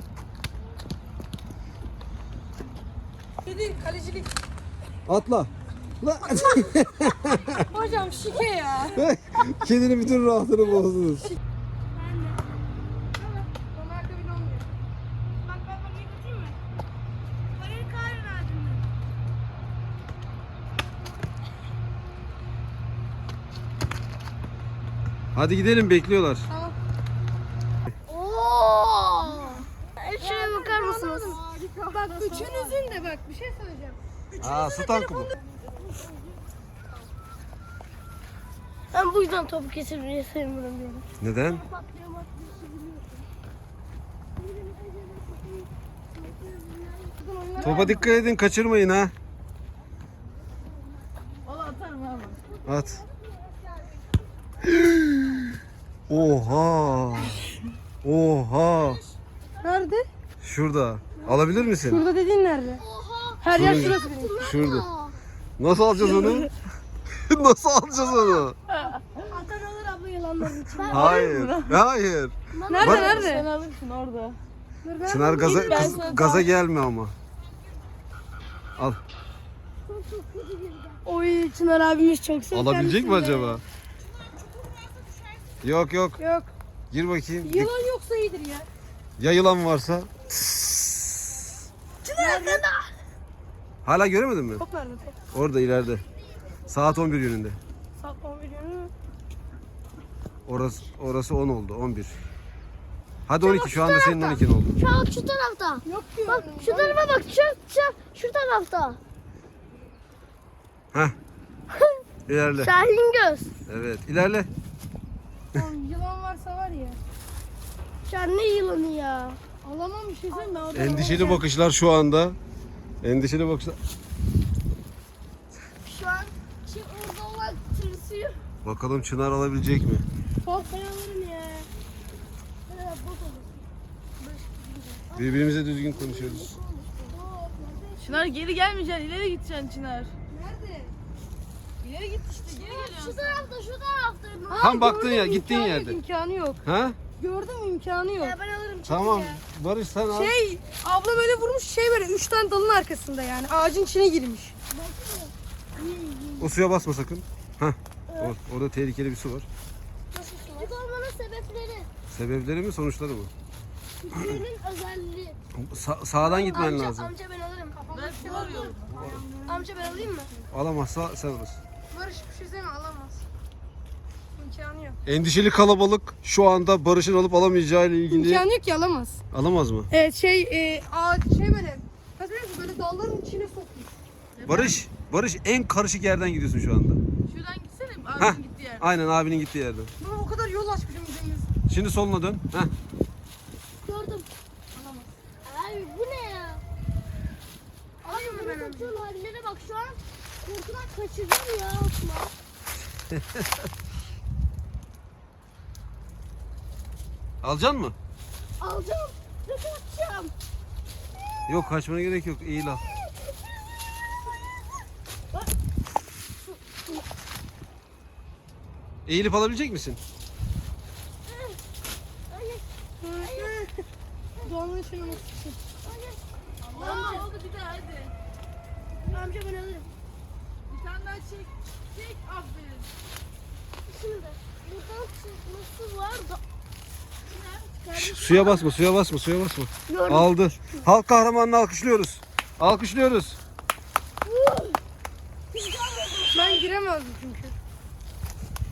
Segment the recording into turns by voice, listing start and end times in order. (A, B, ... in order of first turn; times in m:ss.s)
0:03.4-0:04.3 A
0:05.1-0:05.5 B
0:06.0-0:07.6 B
0:07.7-0:09.0 A
0:09.0-0:11.3 B
0:12.0-0:12.4 C
0:13.2-0:14.7 A
0:15.5-0:16.5 C
0:17.6-0:18.8 A
0:25.4-0:26.5 B
0:26.5-0:26.8 A
0:28.1-0:31.4 C
0:30.2-0:31.4 A
0:31.5-0:32.8 D
0:31.9-0:34.5 A
0:34.4-0:35.3 B
0:34.5-0:35.2 C
0:38.9-0:43.2 C
0:41.2-0:41.6 B
0:44.4-0:47.2 C
0:47.2-0:48.1 A
0:47.6-0:48.0 D
0:47.6-0:49.1 B
0:51.4-0:52.4 D
0:52.6-0:53.0 B
0:54.7-0:55.4 B
0:56.1-0:57.5 B
0:58.0-0:59.0 B
0:59.6-1:00.1 A
1:00.4-1:02.0 B
1:01.8-1:02.8 A
1:02.8-1:05.1 C
1:03.4-1:04.5 A
1:03.6-1:04.8 B
1:05.6-1:06.5 B
1:06.0-1:06.4 A
1:07.1-1:08.6 B
1:07.9-1:08.5 C
1:08.7-1:09.0 D
1:09.2-1:11.3 C
1:10.4-1:11.2 A
1:10.9-1:11.8 D
1:10.9-1:13.2 B
1:12.5-1:13.4 C
1:12.7-1:13.5 A
1:12.8-1:14.4 D
1:14.8-1:16.3 A
1:15.0-1:17.1 B
1:15.4-1:16.5 D
1:19.9-1:22.8 C
1:22.5-1:23.6 B
1:22.7-1:23.6 A
1:25.6-1:26.2 B
1:26.2-1:26.5 A
1:26.9-1:27.7 B
1:27.4-1:28.7 A
1:29.2-1:31.2 B
1:32.1-1:32.6 A
1:32.2-1:32.8 C
1:33.8-1:34.6 B
1:34.6-1:35.2 A
1:35.3-1:36.0 B
1:36.7-1:37.6 B
1:38.0-1:38.9 A
1:40.5-1:42.2 B
1:43.3-1:44.8 B
1:43.4-1:49.0 C
1:45.8-1:47.0 A
1:52.3-1:52.7 B
1:52.6-1:53.5 C
1:53.7-1:54.5 B
1:55.5-1:57.0 A
1:58.1-1:59.4 C
1:59.6-2:01.4 A
2:00.3-2:01.4 C
2:00.7-2:02.4 B
2:03.0-2:03.8 B
2:05.8-2:08.4 C
2:08.6-2:10.0 B
2:10.4-2:11.7 C
2:12.7-2:13.6 C
2:14.2-2:15.0 A
2:15.1-2:18.0 C
2:15.2-2:16.6 B
2:18.0-2:20.1 D
2:20.3-2:20.9 A
2:21.8-2:22.7 A
2:22.4-2:23.5 D
2:22.6-2:24.8 C
2:24.5-2:26.6 A
2:24.6-2:26.0 B
2:26.6-2:27.0 B
2:27.2-2:28.4 A
2:28.2-2:29.4 C
2:28.9-2:30.4 B
2:30.1-2:34.6 A
2:34.7-2:36.6 C
2:36.4-2:39.5 B
2:38.1-2:38.4 C
2:40.1-2:40.7 A
2:40.5-2:41.9 C
2:42.1-2:43.3 B
2:44.0-2:45.4 C
2:45.6-2:47.1 B
2:46.2-2:48.8 C
2:47.7-2:50.1 A
2:47.9-2:48.9 D
2:48.9-2:49.2 B
2:49.4-2:50.3 C
2:50.5-2:51.6 B
2:51.9-2:53.2 A
2:54.4-2:55.0 A
2:55.1-2:58.5 B
2:58.1-2:59.2 A
2:59.3-2:59.9 B
2:59.9-3:03.9 A
3:04.4-3:04.8 D
3:04.5-3:07.0 B
3:07.3-3:08.8 D
3:08.2-3:09.9 B
3:10.0-3:11.5 A
3:11.7-3:12.7 B
3:13.8-3:14.3 C
3:14.7-3:15.1 A
3:15.4-3:16.6 C
3:18.0-3:18.9 A
3:18.1-3:22.3 C
3:27.4-3:28.0 B
3:28.6-3:30.3 C
3:31.5-3:32.8 B
3:39.1-3:40.0 B
3:41.3-3:41.6 C
3:42.3-3:43.5 C
3:43.0-3:43.8 A
3:44.4-3:45.2 C
3:44.4-3:45.6 A
3:45.8-3:47.3 C
3:46.6-3:48.1 D
3:49.1-3:49.9 C
3:50.7-3:52.9 D
3:53.9-3:56.4 C
3:57.3-3:58.6 D
3:57.9-4:03.4 B
3:59.9-4:00.9 C
4:04.2-4:04.8 C
4:05.5-4:06.6 C
4:06.3-4:07.5 A